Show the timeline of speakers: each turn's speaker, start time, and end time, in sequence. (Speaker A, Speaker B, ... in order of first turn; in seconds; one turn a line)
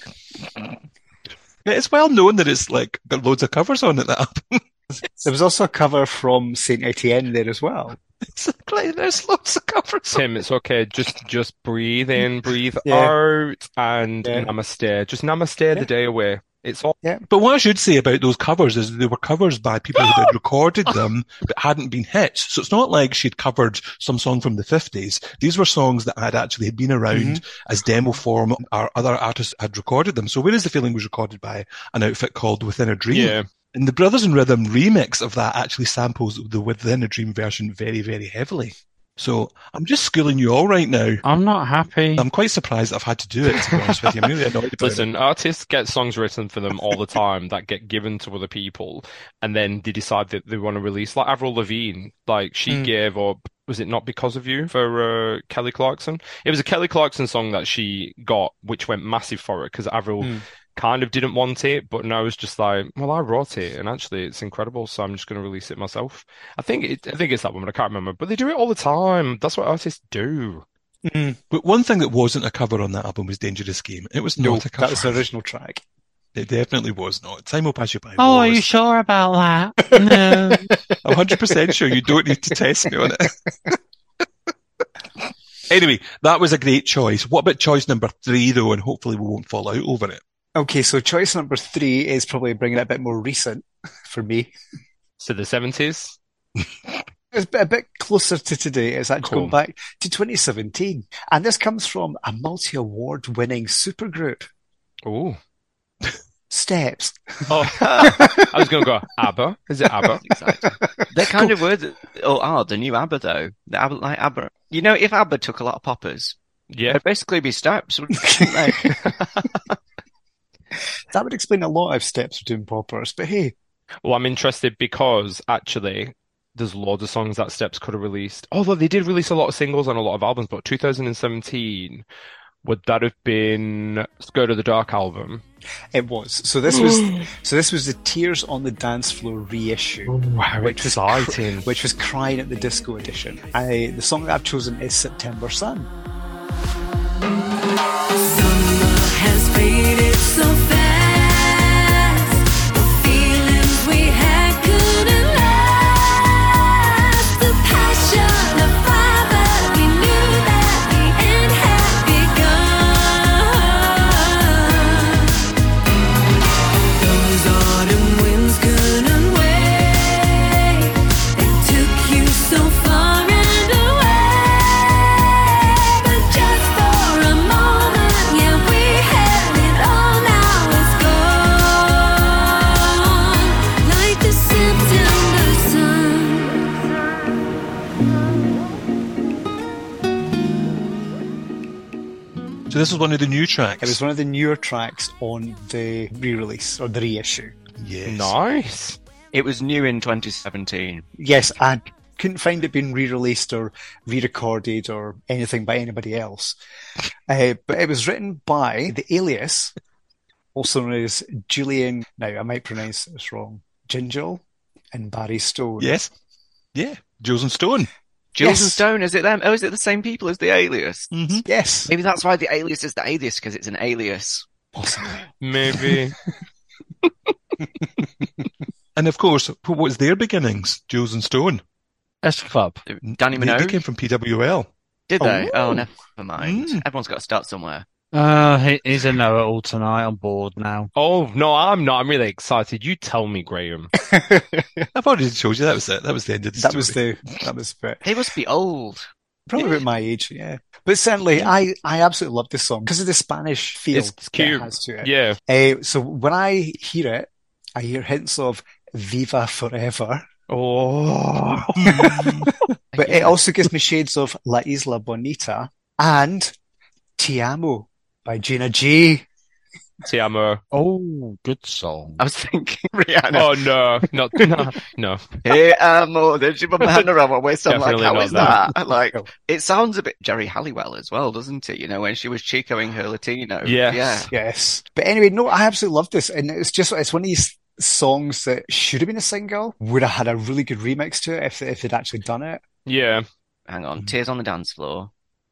Speaker A: 1.6-5.0
Speaker B: 5.2-8.0
Speaker A: 8.2-10.3
Speaker C: 10.1-17.0
Speaker B: 12.9-13.1
Speaker B: 14.2-14.5
Speaker A: 17.3-41.2
Speaker B: 27.1-27.4
Speaker C: 33.1-33.5
Speaker D: 41.2-42.3
Speaker A: 42.2-45.1
Speaker C: 43.5-44.1
Speaker C: 44.8-70.7
Speaker B: 71.0-71.4
Speaker A: 71.5-75.2
Speaker B: 74.4-75.8
Speaker A: 76.3-78.7
Speaker D: 78.2-80.7
Speaker B: 79.9-82.1
Speaker A: 81.0-83.4
Speaker B: 83.1-83.3
Speaker A: 85.7-90.2
Speaker B: 90.6-94.5
Speaker C: 95.2-96.2
Speaker B: 97.3-104.5
Speaker C: 99.2-99.6
Speaker C: 105.0-105.4
Speaker B: 106.5-108.5
Speaker C: 107.5-110.3
Speaker E: 107.8-108.2
Speaker E: 110.2-116.4
Speaker B: 110.6-111.5
Speaker C: 116.7-117.0
Speaker E: 116.9-119.5
Speaker B: 118.3-119.0
Speaker B: 121.1-123.5
Speaker C: 124.0-132.0
Speaker C: 132.6-135.4
Speaker B: 135.9-145.9
Speaker C: 136.7-137.3
Speaker C: 140.1-141.7
Speaker F: 148.1-165.3
Speaker F: 166.9-186.7
Speaker A: 192.7-194.0
Speaker B: 193.8-197.6
Speaker A: 197.8-198.4
Speaker C: 198.1-199.0
Speaker E: 199.3-201.1
Speaker B: 201.2-206.6
Speaker B: 207.3-209.7
Speaker B: 210.6-215.9
Speaker A: 215.8-216.1
Speaker A: 216.7-217.9
Speaker E: 218.3-221.1
Speaker B: 218.4-218.8
Speaker A: 221.1-221.5
Speaker B: 221.5-221.9
Speaker E: 221.9-224.5
Speaker B: 224.8-226.0
Speaker C: 225.4-226.2
Speaker A: 229.0-231.6
Speaker D: 232.2-232.8
Speaker E: 232.9-233.8
Speaker A: 233.0-234.7
Speaker E: 235.1-237.9
Speaker B: 235.2-235.8
Speaker A: 236.4-236.8
Speaker D: 238.1-240.9
Speaker C: 240.9-243.9
Speaker B: 244.0-244.9
Speaker A: 244.9-247.0
Speaker B: 246.6-248.0
Speaker E: 248.0-249.1
Speaker B: 249.5-260.3
Speaker C: 253.9-255.4
Speaker C: 260.5-262.5
Speaker B: 261.8-262.1
Speaker A: 261.8-262.5
Speaker E: 262.9-263.4
Speaker B: 263.0-266.5
Speaker B: 267.2-269.2
Speaker C: 270.0-270.6
Speaker D: 270.7-272.2
Speaker E: 272.2-273.6
Speaker C: 273.3-275.4
Speaker E: 275.4-284.3
Speaker C: 277.7-278.6
Speaker B: 278.3-279.3
Speaker C: 283.6-284.3
Speaker B: 284.3-292.6
Speaker C: 292.9-293.2
Speaker E: 293.7-295.1